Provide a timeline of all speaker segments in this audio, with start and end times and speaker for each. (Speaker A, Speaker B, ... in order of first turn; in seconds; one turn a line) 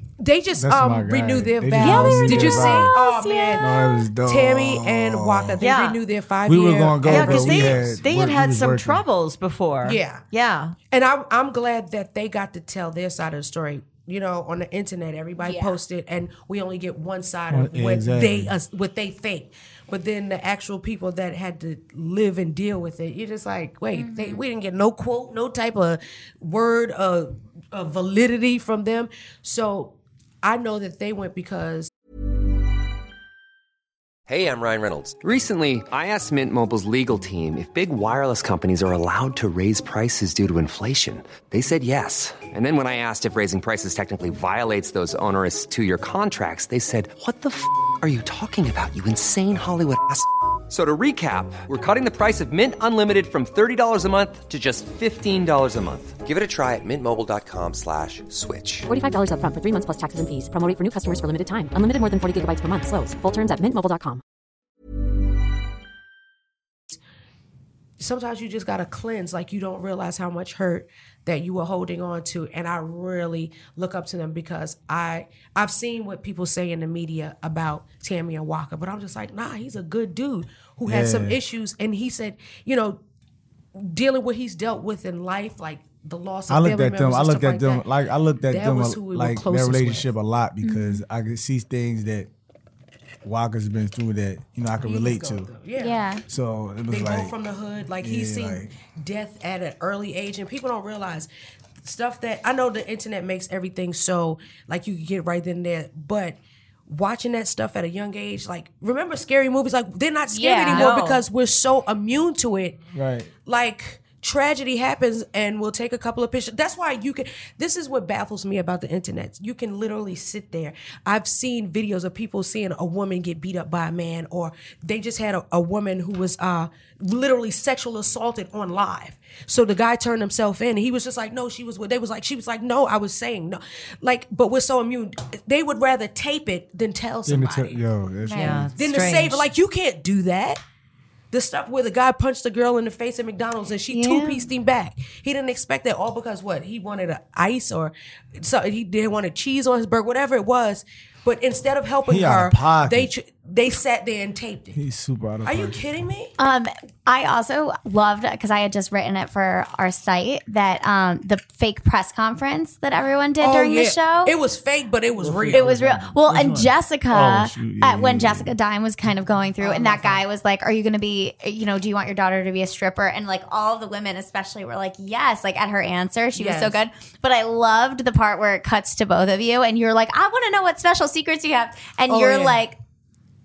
Speaker A: 0.2-3.7
Speaker B: 0.5-2.9
Speaker C: 1.8-3.8
Speaker B: 3.6-5.6
Speaker A: 4.2-8.0
Speaker D: 5.6-6.0
Speaker B: 6.5-9.0
Speaker D: 7.0-10.7
Speaker A: 9.8-10.2
Speaker A: 10.9-31.9
Speaker C: 15.4-15.7
Speaker B: 17.5-18.5
Speaker C: 23.9-24.4
Speaker E: 34.3-58.9
Speaker F: 58.9-64.2
Speaker A: 68.0-83.0
Speaker B: 80.8-81.4
Speaker A: 83.7-87.9
Speaker B: 86.5-92.3
Speaker A: 88.5-90.1
Speaker C: 90.6-91.0
Speaker B: 93.2-95.5
Speaker A: 94.8-96.0
Speaker C: 95.8-96.2
Speaker B: 96.3-97.3
Speaker A: 96.9-101.3
Speaker B: 98.0-98.7
Speaker A: 101.8-112.8
Speaker C: 110.3-111.2
Speaker B: 112.9-113.3
Speaker A: 113.4-137.8
Speaker B: 137.2-138.7
Speaker C: 138.2-138.6
Speaker D: 138.3-139.5
Speaker A: 138.8-140.6
Speaker A: 141.3-154.8
Speaker C: 143.9-144.5
Speaker B: 152.1-153.1
Speaker B: 154.7-155.8
Speaker A: 155.4-156.3
Speaker C: 156.4-164.3
Speaker A: 163.4-165.6
Speaker B: 165.2-168.5
Speaker C: 165.5-182.8
Speaker A: 169.6-170.2
Speaker A: 176.3-176.8
Speaker A: 182.1-182.6